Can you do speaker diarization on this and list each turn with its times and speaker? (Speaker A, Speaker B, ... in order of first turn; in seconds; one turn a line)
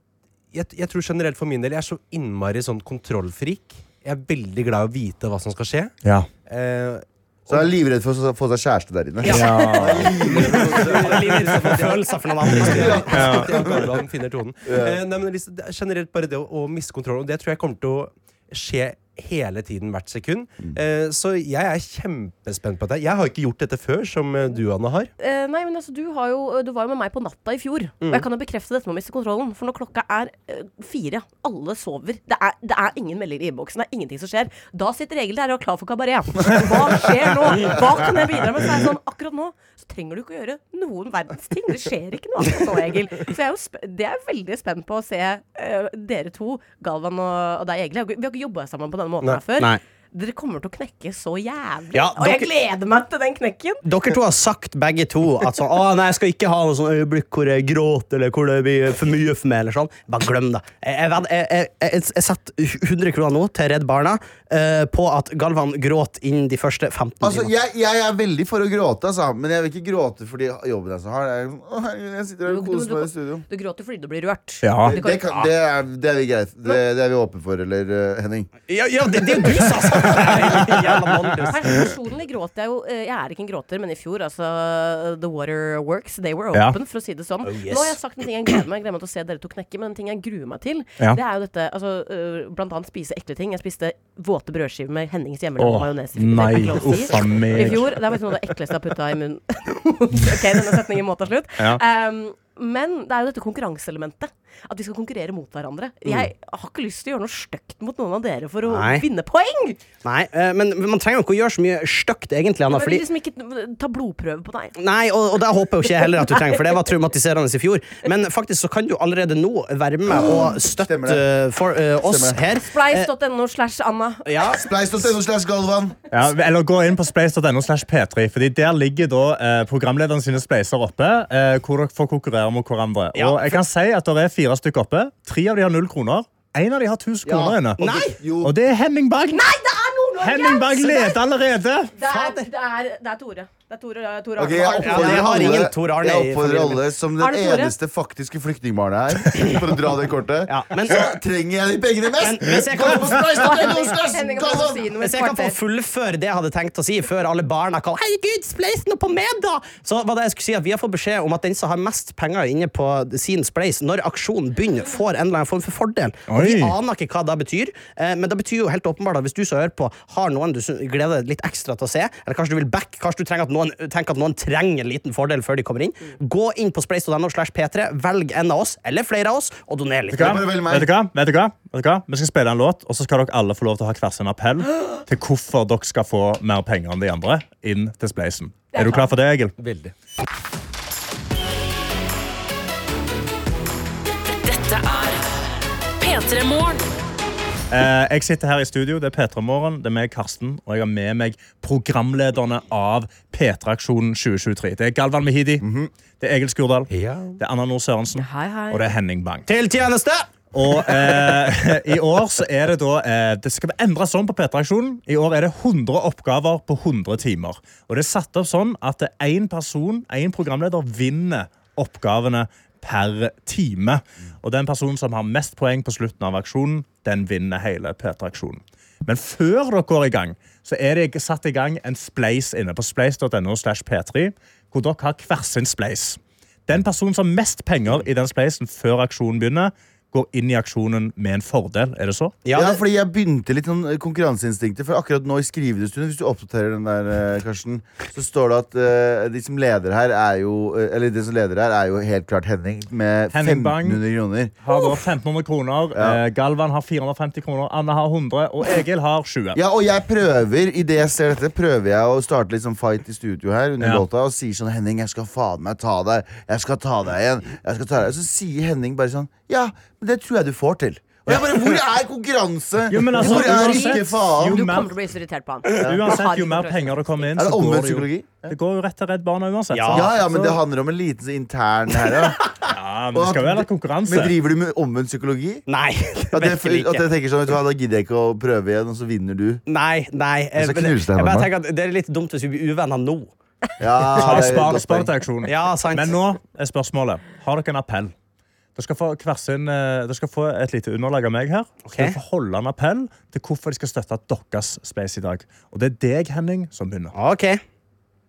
Speaker A: 0.5-6.0
Speaker A: 6.5-7.7
Speaker B: 7.5-11.5
Speaker C: 9.3-9.7
Speaker D: 9.3-10.4
Speaker A: 10.2-25.1
Speaker E: 10.3-13.3
Speaker B: 12.5-14.1
Speaker D: 13.1-13.5
Speaker B: 14.7-15.0
Speaker C: 25.2-53.8
Speaker A: 28.0-28.3
Speaker E: 51.9-52.5
Speaker E: 53.8-67.5
Speaker B: 67.2-73.4
Speaker C: 72.5-75.3
Speaker D: 74.6-74.9
Speaker B: 74.9-78.5
Speaker E: 78.7-81.9
Speaker C: 81.5-109.8
Speaker E: 87.4-88.0
Speaker D: 95.6-98.0
Speaker E: 108.7-109.0
Speaker E: 110.0-113.0
Speaker C: 112.7-114.8
Speaker E: 114.8-123.1
Speaker C: 116.0-116.4
Speaker B: 120.1-121.3
Speaker C: 120.2-120.5
Speaker B: 122.0-122.5
Speaker C: 122.6-124.3
Speaker E: 124.2-124.6
Speaker B: 124.5-126.0
Speaker D: 126.1-137.8
Speaker E: 133.2-133.6
Speaker B: 137.2-138.5
Speaker E: 137.8-138.1
Speaker D: 138.4-139.5
Speaker C: 139.3-141.2
Speaker D: 140.2-141.9
Speaker C: 142.0-145.7
Speaker E: 142.0-142.5
Speaker B: 144.4-154.9
Speaker E: 144.8-146.8
Speaker C: 147.2-147.7
Speaker E: 150.5-151.1
Speaker E: 152.2-153.3
Speaker C: 153.2-155.6
Speaker E: 155.0-180.4
Speaker D: 166.3-166.7
Speaker B: 180.1-180.9
Speaker D: 180.1-189.6
Speaker C: 188.7-189.1
Speaker A: 189.6-189.9
Speaker F: 194.2-195.3
Speaker F: 196.0-196.9
Speaker D: 197.7-205.7
Speaker B: 205.6-205.9
Speaker D: 206.2-209.5
Speaker A: 206.9-207.4
Speaker C: 208.2-208.9
Speaker E: 209.5-210.3
Speaker D: 210.5-242.4
Speaker E: 242.4-242.8
Speaker B: 242.5-254.6
Speaker D: 253.3-254.0
Speaker D: 254.6-259.6
Speaker B: 259.6-274.7
Speaker D: 263.8-264.1
Speaker D: 271.3-271.8
Speaker D: 272.9-274.9
Speaker C: 273.2-277.2
Speaker D: 275.7-280.1
Speaker B: 277.4-278.5
Speaker E: 279.7-280.4
Speaker B: 279.9-282.5
Speaker D: 282.7-284.3
Speaker B: 283.1-285.7
Speaker E: 285.7-287.1
Speaker B: 286.3-289.6
Speaker E: 289.7-293.3
Speaker B: 290.6-291.5
Speaker B: 293.8-295.1
Speaker D: 294.1-298.1
Speaker E: 295.5-296.1
Speaker D: 298.8-307.1
Speaker E: 301.9-302.2
Speaker E: 307.1-307.6